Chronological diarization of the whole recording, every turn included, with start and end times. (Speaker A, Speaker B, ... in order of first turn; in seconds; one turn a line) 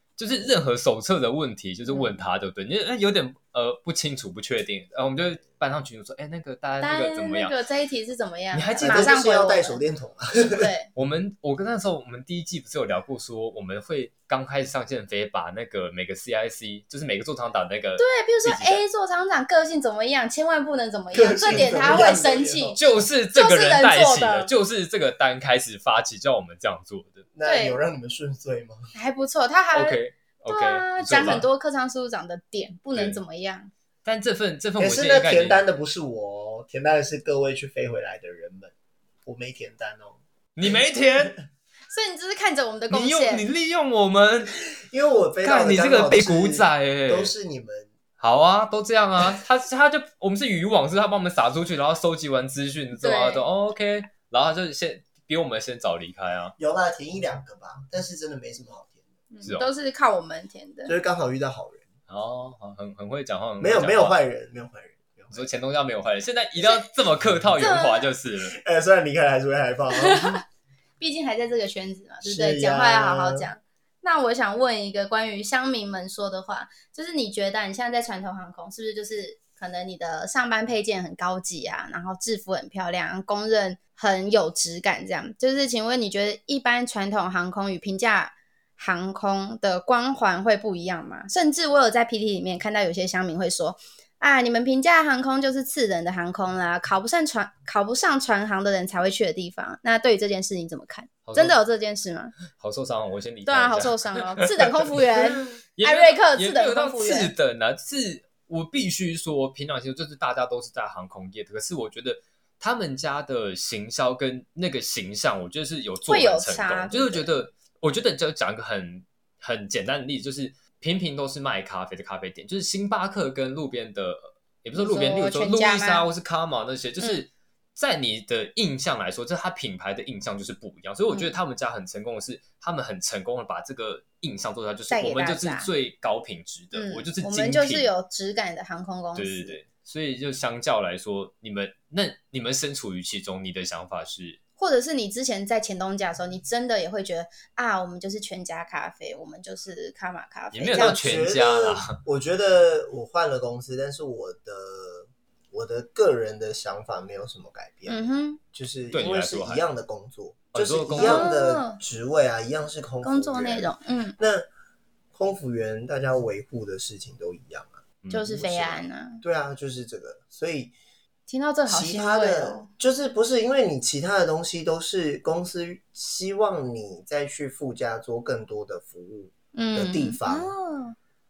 Speaker A: 0.2-7.5
Speaker B: 1.9-2.2
Speaker B: 6.8-9.8
Speaker A: 8.5-9.1
Speaker C: 8.8-10.7
Speaker B: 10.4-10.9
Speaker A: 10.9-18.8
Speaker B: 18.0-22.8
Speaker C: 21.1-22.8
Speaker A: 22.7-27.2
Speaker B: 23.3-24.5
Speaker C: 27.3-28.9
Speaker B: 27.4-27.8
Speaker B: 28.9-33.7
Speaker A: 29.7-31.5
Speaker A: 32.9-33.2
Speaker A: 34.0-35.6
Speaker C: 34.8-38.7
Speaker C: 39.2-41.3
Speaker A: 40.5-41.3
Speaker B: 41.9-43.5
Speaker A: 42.9-44.6
Speaker C: 44.8-47.9
Speaker A: 45.4-47.3
Speaker A: 48.2-56.5
Speaker B: 53.0-53.4
Speaker C: 56.6-59.0
Speaker B: 59.3-60.9
Speaker A: 59.4-59.7
Speaker C: 60.9-61.8
Speaker A: 62.1-64.2
Speaker C: 63.6-65.5
Speaker A: 65.3-68.5
Speaker B: 66.6-66.8
Speaker B: 67.6-68.1
Speaker C: 68.4-70.4
Speaker B: 69.9-70.4
Speaker B: 71.0-102.3
Speaker C: 72.2-73.5
Speaker A: 101.2-101.6
Speaker A: 102.5-137.9
Speaker B: 103.5-107.3
Speaker B: 116.1-117.3
Speaker B: 124.8-126.1
Speaker B: 131.1-131.4
Speaker B: 134.9-135.7
Speaker B: 136.7-139.6
Speaker A: 139.1-144.4
Speaker B: 144.6-151.3
Speaker A: 150.5-152.0
Speaker C: 150.7-158.0
Speaker B: 157.9-158.4
Speaker C: 158.5-164.4
Speaker A: 158.9-159.6
Speaker A: 160.5-161.3
Speaker B: 161.0-161.8
Speaker B: 163.0-164.2
Speaker C: 165.1-167.8
Speaker A: 168.0-168.4
Speaker B: 168.1-169.2
Speaker C: 168.4-170.7
Speaker B: 171.3-172.7
Speaker C: 171.7-180.5
Speaker B: 179.5-180.9